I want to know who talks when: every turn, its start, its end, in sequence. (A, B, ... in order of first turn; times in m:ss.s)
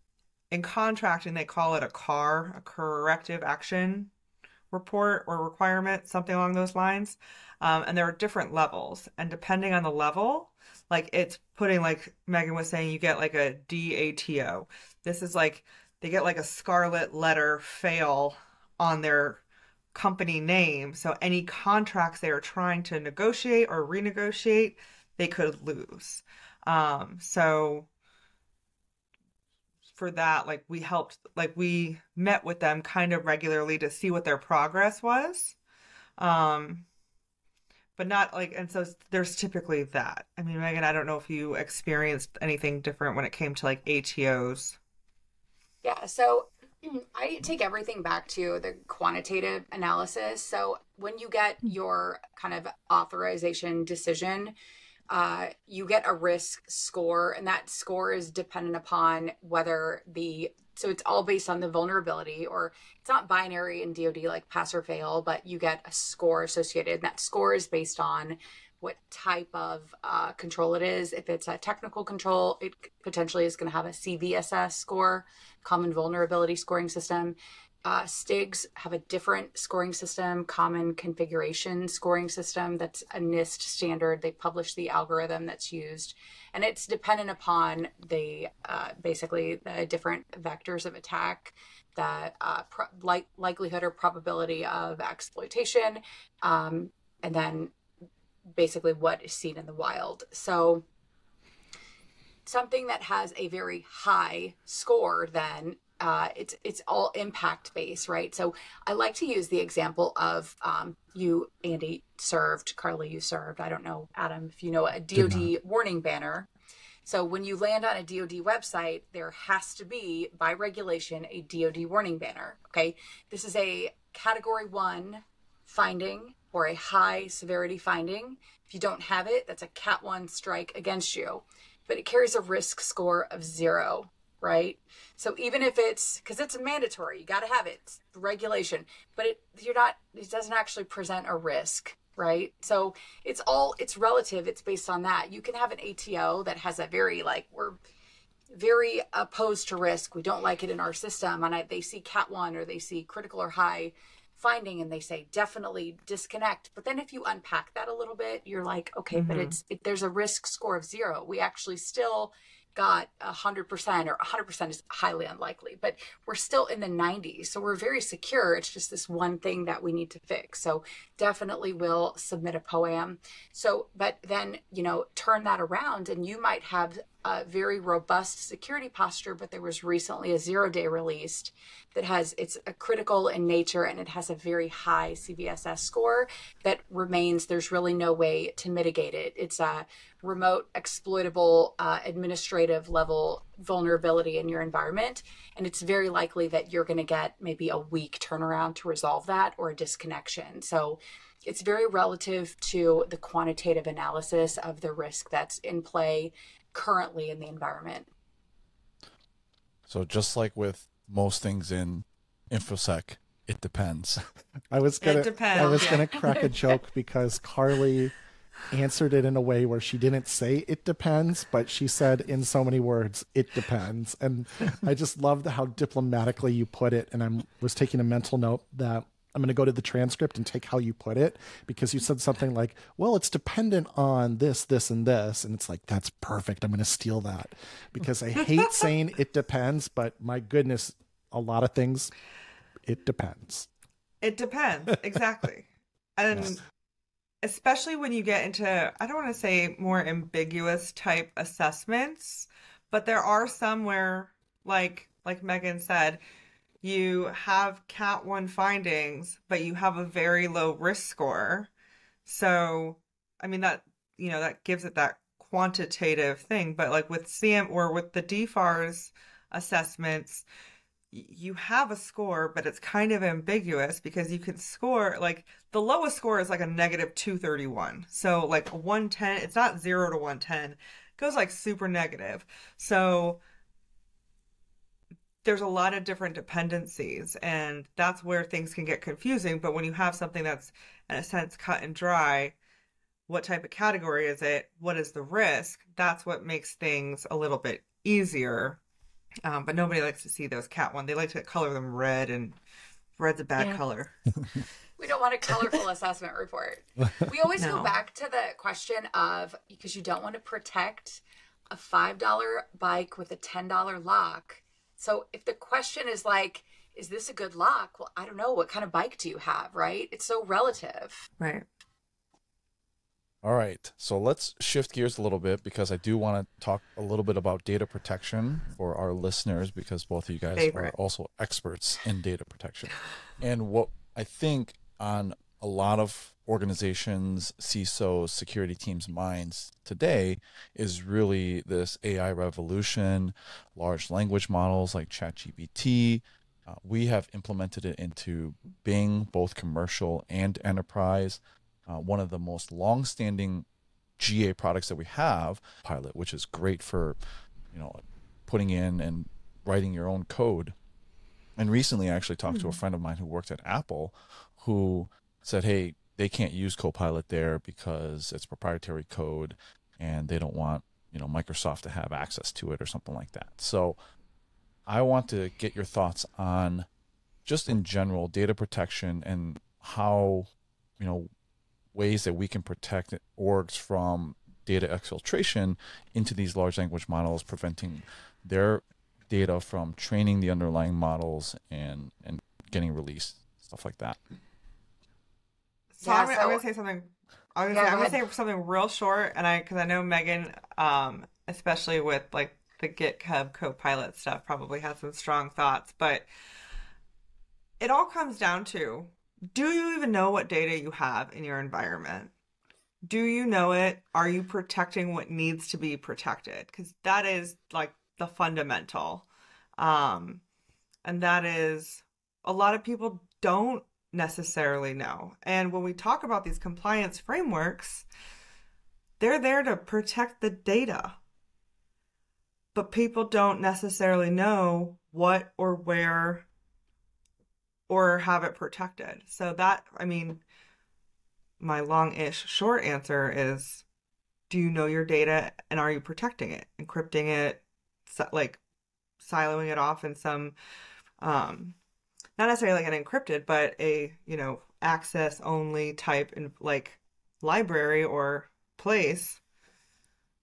0:00.5-0:04.1 A
0:04.7-0:19.4 A
0:19.9-0:27.9 A
0:29.9-0:35.6 A
0:36.2-0:36.9 A
0:38.0-0:44.8 A
0:45.8-0:54.5 B
0:55.1-1:37.7 B
1:38.6-1:40.8 B
1:42.5-1:56.5 B
1:57.0-2:27.8 B
2:28.5-3:28.1 B
2:39.1-2:39.6 A
3:29.9-3:34.2 C
3:34.7-3:38.2 D
3:35.0-3:36.1 A
3:35.6-3:36.8 B
3:38.7-4:02.1 D
3:58.4-3:58.9 A
4:02.8-4:03.7 D
4:04.2-4:06.6 A
4:07.4-4:16.2 A
4:16.8-4:21.7 A
4:22.3-4:30.4 A
4:31.1-4:43.4 A
4:45.4-4:52.6 A
4:53.3-4:58.8 A
4:59.5-5:02.6 A
5:03.2-5:04.1 A
5:05.0-5:21.3 B
5:07.6-5:07.9 A
5:21.4-5:21.7 A
5:23.4-5:53.7 C
5:30.6-5:30.9 A
5:54.2-5:57.2 C
5:57.7-6:00.8 C
6:01.6-6:14.0 C
6:02.5-6:02.8 A
6:14.9-6:16.9 C
6:17.4-6:21.3 C
6:22.0-6:34.2 C
6:35.9-6:46.3 A
6:36.0-6:36.6 B
6:37.7-6:38.2 B
6:47.8-6:52.3 A
6:53.0-6:59.3 A
6:59.8-7:00.4 A
7:01.0-7:08.1 A
7:09.2-7:11.2 A
7:12.7-7:16.5 A
7:17.9-7:20.4 A
7:21.6-7:23.8 A
7:24.5-7:28.6 A
7:29.2-7:30.6 A
7:31.2-7:31.8 A
7:32.4-7:39.4 A